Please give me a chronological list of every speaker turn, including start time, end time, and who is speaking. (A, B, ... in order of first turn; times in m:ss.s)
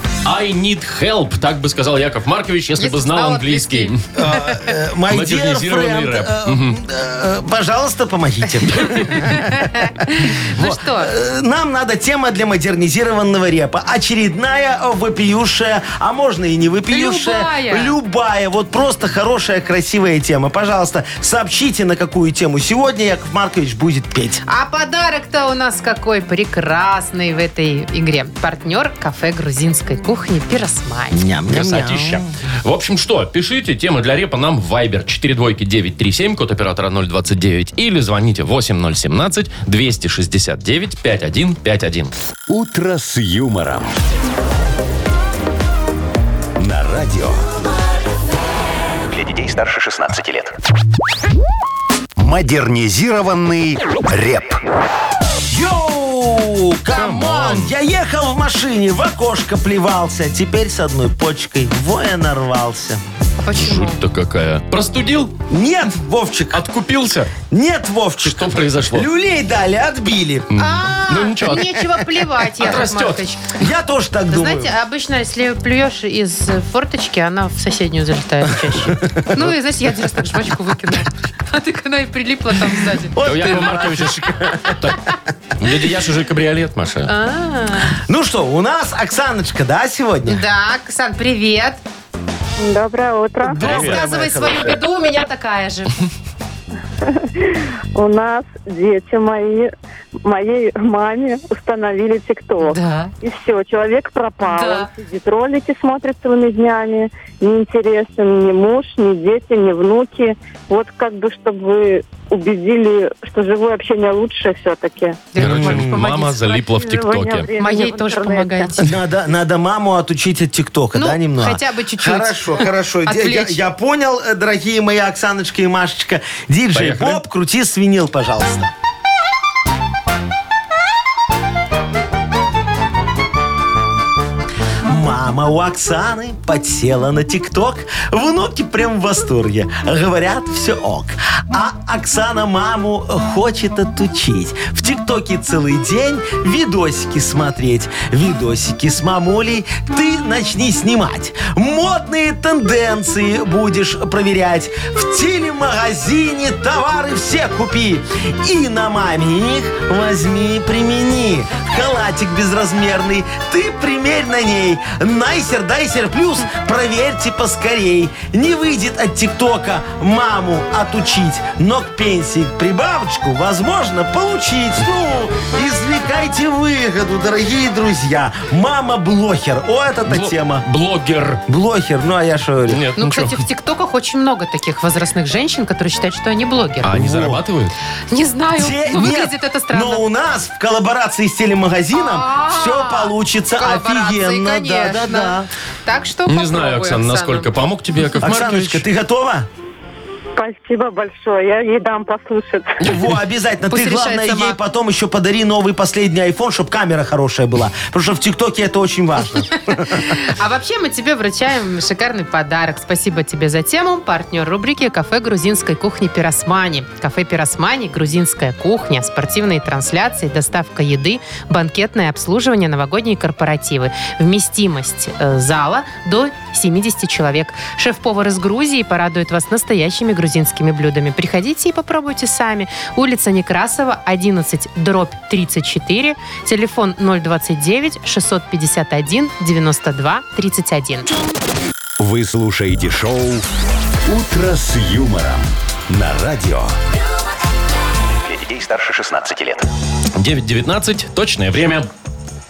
0:00.2-0:04.0 A
0:02.8-0:03.9 B
0:04.2-0:24.4 C
0:05.1-0:06.8 A
0:08.7-0:11.1 B
0:16.9-0:17.9 B
0:24.4-0:31.2 B
0:31.1-0:32.3 C
0:31.5-0:42.1 A
0:42.5-0:43.9 D
0:46.6-0:47.5 D
0:49.1-0:50.5 E
0:52.2-0:54.6 D
0:55.5-1:03.0 C
0:56.9-0:57.7 A
1:03.4-1:04.0 B
1:03.5-1:05.3 A
1:05.5-1:06.6 C
1:06.5-1:07.3 A
1:07.5-1:11.7 C
1:08.2-1:09.1 A
1:10.5-1:11.8 A
1:11.1-1:13.4 B
1:12.6-1:13.2 A
1:13.6-1:14.7 C
1:14.3-1:23.8 B
1:18.7-1:19.5 C
1:23.1-1:24.8 C
1:23.2-1:25.0 A
1:25.6-1:27.1 A
1:27.1-1:28.0 B
1:28.1-1:30.4 C
1:30.3-1:31.8 B
1:32.6-1:33.6 F
1:33.5-1:34.0 A
1:33.6-1:36.0 B
1:33.6-1:34.8 C
1:37.2-1:39.7 F
1:40.2-1:55.3 F
1:42.6-1:43.1 B
1:44.4-1:44.9 B
1:55.3-1:56.4 B
1:55.4-1:57.5 A
1:55.4-1:55.9 C
1:56.4-1:58.7 F
1:57.6-1:58.9 B
1:58.8-2:08.7 C
2:01.0-2:03.6 B
2:06.7-2:07.2 A
2:14.9-3:00.6 C
3:00.1-3:01.4 A
3:01.5-3:02.9 C
3:02.7-3:03.4 A
3:03.0-3:06.9 B
3:06.8-3:07.7 A
3:06.9-3:07.4 C
3:08.1-3:10.0 B
3:08.6-3:15.5 C
3:11.9-3:17.5 B
3:16.3-3:18.8 A
3:18.2-3:19.5 C
3:20.4-3:22.7 F
3:22.8-3:30.1 C
3:23.7-3:24.6 B
3:29.7-4:01.1 B
4:02.0-4:03.4 D
4:04.1-4:06.7 D
4:08.2-4:09.7 E
4:10.2-4:11.9 A